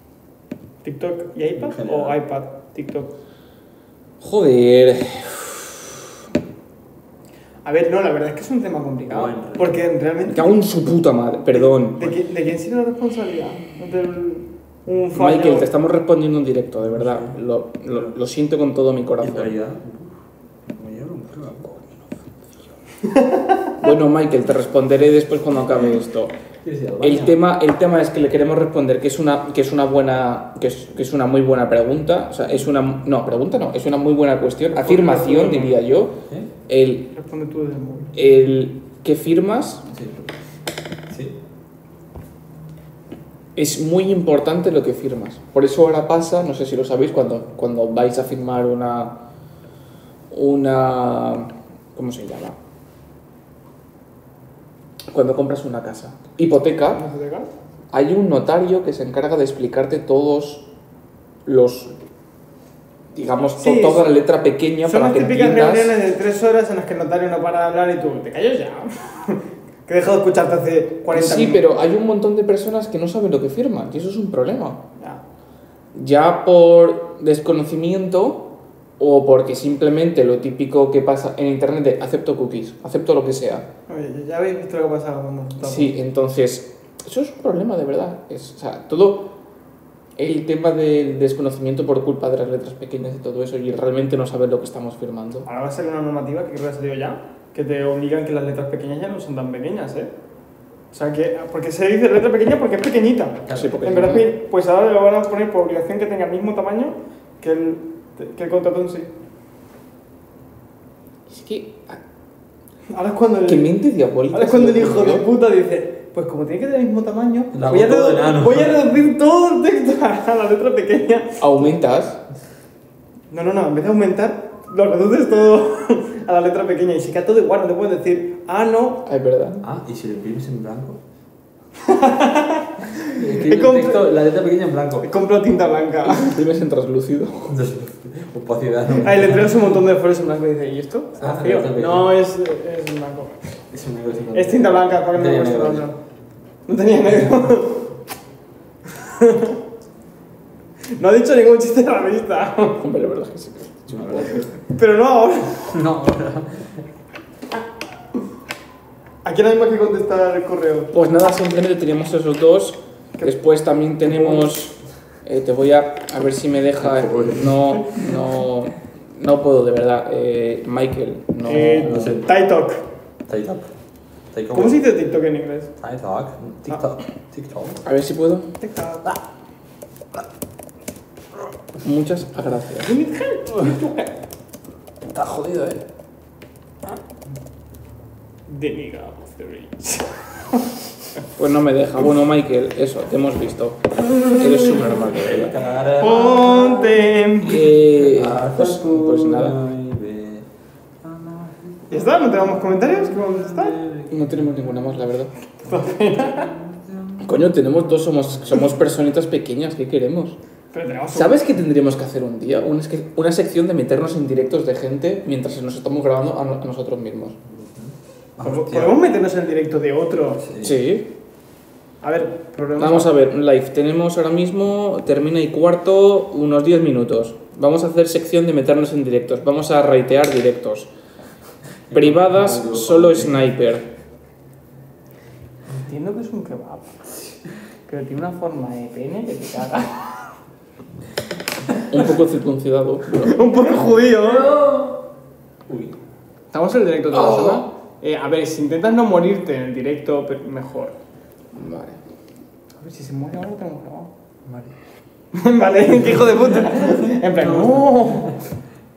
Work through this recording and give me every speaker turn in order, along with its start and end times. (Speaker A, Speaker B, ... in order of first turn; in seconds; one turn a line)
Speaker A: 0.8-3.1
Speaker B: 1.6-2.2
Speaker C: 4.2-6.0
Speaker A: 7.6-10.7
Speaker B: 9.1-9.8
Speaker C: 10.3-12.2
Speaker A: 11.4-15.7
Speaker C: 15.2-19.5
Speaker B: 16.8-18.1
Speaker B: 19.2-22.2
Speaker A: 23.1-23.7
Speaker C: 23.8-26.3
Speaker B: 26.6-27.4
Speaker C: 27.0-37.1
Speaker A: 34.7-35.8
Speaker A: 37.1-38.1
Speaker C: 38.1-39.9
Speaker B: 39.9-40.3
Speaker B: 41.1-41.4
Speaker C: 43.6-49.2
Speaker C: 50.3-52.6
Speaker C: 55.1-57.0
Speaker A: 56.9-57.5
Speaker C: 57.9-60.6
Speaker C: 61.5-61.9
Speaker C: 63.1-66.0
Speaker A: 63.6-64.1
Speaker A: 64.8-71.6
Speaker C: 71.1-74.8
Speaker C: 75.9-83.7
Speaker A: 83.9-85.9
Speaker C: 85.6-89.3
Speaker C: 90.2-95.5
Speaker A: 95.5-100.1
Speaker A: 100.9-109.1
Speaker C: 103.5-104.3
Speaker B: 103.5-103.8
Speaker C: 111.3-112.0
Speaker A: 112.9-113.7
Speaker C: 113.5-115.3
Speaker A: 114.3-121.4
Speaker B: 117.5-118.8
Speaker C: 121.4-122.2
Speaker A: 123.3-129.1
Speaker C: 129.1-129.7
Speaker B: 129.6-131.0
Speaker A: 131.8-134.1
Speaker B: 133.1-135.1
Speaker A: 135.0-136.4
Speaker C: 136.1-137.6
Speaker B: 137.5-139.8
Speaker A: 139.0-143.4
Speaker B: 141.2-142.2
Speaker B: 143.7-145.9
Speaker A: 144.3-146.0
Speaker A: 146.7-147.9
Speaker B: 147.1-147.4
Speaker A: 148.9-149.6
Speaker A: 150.9-152.8
Speaker C: 152.8-154.5
Speaker B: 153.9-154.4
Speaker A: 154.7-155.8
Speaker B: 155.7-156.8
Speaker A: 159.2-160.9
Speaker C: 160.9-172.0
Speaker A: 164.1-164.5
Speaker B: 166.8-167.9
Speaker A: 171.4-172.8
Speaker B: 171.5-172.3
Speaker B: 173.3-173.7
Speaker B: 174.3-174.8
Speaker A: 174.5-175.7
Speaker B: 175.8-177.8
Speaker C: 177.8-178.5
Speaker A: 178.6-179.2
Speaker C: 181.8-182.9
Speaker A: 182.8-184.1
Speaker B: 185.1-185.8
Speaker A: 188.5-190.8
Speaker C: 191.4-195.6
Speaker B: 195.1-197.0
Speaker A: 196.0-197.7
Speaker C: 197.4-199.6
Speaker B: 197.9-200.5
Speaker B: 201.0-205.1
Speaker A: 201.9-203.8
Speaker C: 204.1-205.3
Speaker A: 205.6-206.5
Speaker B: 205.7-207.5
Speaker C: 207.2-210.4
Speaker A: 210.7-211.4
Speaker C: 211.1-217.4
Speaker B: 217.5-219.0
Speaker A: 218.4-220.4
Speaker B: 220.4-220.8
Speaker C: 220.6-221.1
Speaker A: 222.0-223.1
Speaker C: 222.8-230.9
Speaker B: 231.9-233.5
Speaker C: 231.9-233.9
Speaker A: 235.7-237.0
Speaker A: 237.9-240.0
Speaker C: 241.9-243.6
Speaker A: 243.2-244.5
Speaker B: 243.9-245.0
Speaker B: 245.7-246.0
Speaker A: 246.5-251.0
Speaker B: 247.1-247.7
Speaker C: 251.5-252.0
Speaker A: 252.8-254.1
Speaker B: 254.4-254.7
Speaker A: 255.3-258.4
Speaker B: 256.2-258.4